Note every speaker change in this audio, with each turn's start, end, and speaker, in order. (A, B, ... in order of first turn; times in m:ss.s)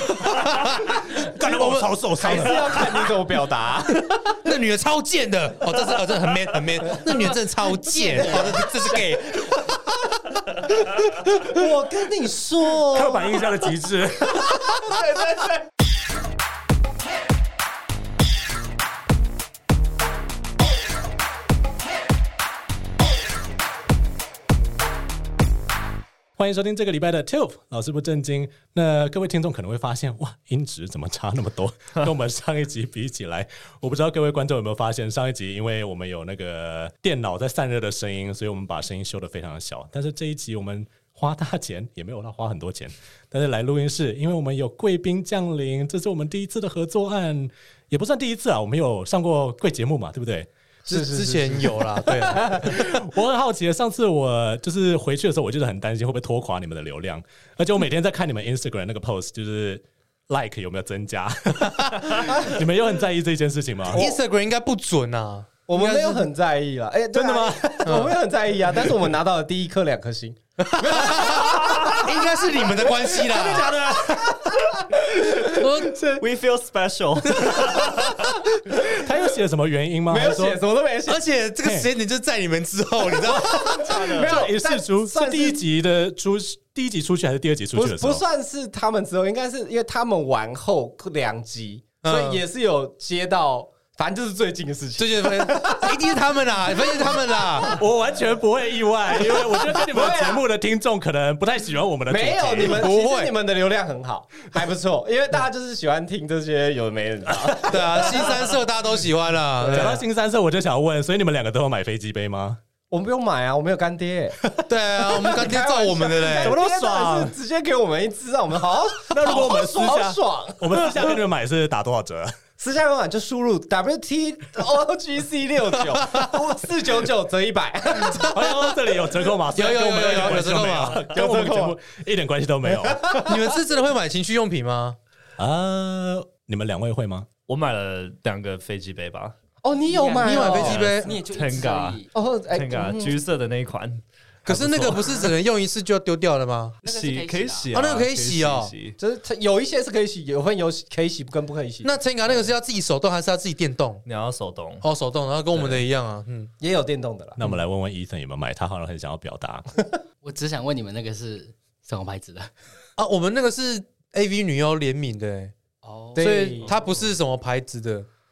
0:00.2-0:01.9 A
0:00.9-0:03.1 B
0:01.1-0:04.3 C
0:04.3-0:09.7 A
0:06.8-0:07.2 C
0:07.8-0:09.5 C
0:11.3-0:13.6 C
0:12.9-0:14.9 B
0:14.4-0:15.6 C
0:26.4-0:50.5 B
0:50.9-0:52.8 C
0:50.9-0:52.9 A
0:52.6-1:04.0 B
1:02.2-1:02.6 C
1:03.9-1:04.2 C
1:03.9-1:06.3 A
1:05.7-1:16.2 C
1:07.1-1:08.1 B
1:07.8-1:08.2 A
1:10.6-1:13.7 A
1:13.1-1:14.5 B
1:15.5-1:16.0 A
1:16.2-1:18.1 D
1:17.4-1:18.0 A
1:18.7-1:20.6 B
1:20.1-1:21.2 C
1:21.1-1:23.9 A
1:21.6-1:21.9 B
1:23.2-1:28.2 B
1:23.2-1:25.6 C
1:23.8-1:24.5 D
1:27.7-1:37.8 C
1:32.0-1:32.4 A
1:35.0-1:37.8 A
1:37.6-1:42.9 B
1:39.1-1:40.4 C
1:42.1-1:48.6 C
1:42.6-1:43.3 A
1:47.5-1:48.2 B
1:47.6-1:50.0 A
1:49.6-1:50.0 C
1:49.6-1:52.6 B
1:52.9-1:54.4 C
1:54.7-1:56.6 A
1:55.1-2:01.2 C
1:56.2-1:57.3 B
1:59.0-2:02.3 B
2:02.6-2:08.7 C
2:08.1-2:13.3 B
2:09.5-2:11.1 A
2:11.1-2:11.8 C
2:12.7-2:13.5 C
2:13.2-2:15.0 A
2:15.4-2:17.3 B
2:17.5-2:19.3 D
2:19.6-2:21.0 C
2:19.9-2:22.1 E
2:20.2-2:21.1 A
2:20.4-2:25.3 D
2:22.1-2:23.2 C
2:24.4-2:26.8 A
2:26.8-2:27.7 E
2:26.8-2:29.0 D
2:27.7-2:28.7 A
2:29.0-2:31.9 C
2:31.8-2:34.0 A
2:34.0-2:34.8 D
2:34.8-2:36.5 A
2:36.6-2:37.4 C
2:37.4-2:39.6 B
2:40.2-2:42.5 E
2:43.0-2:45.5 A
2:45.8-2:47.1 E
2:46.2-2:46.8 C
2:46.2-2:48.1 A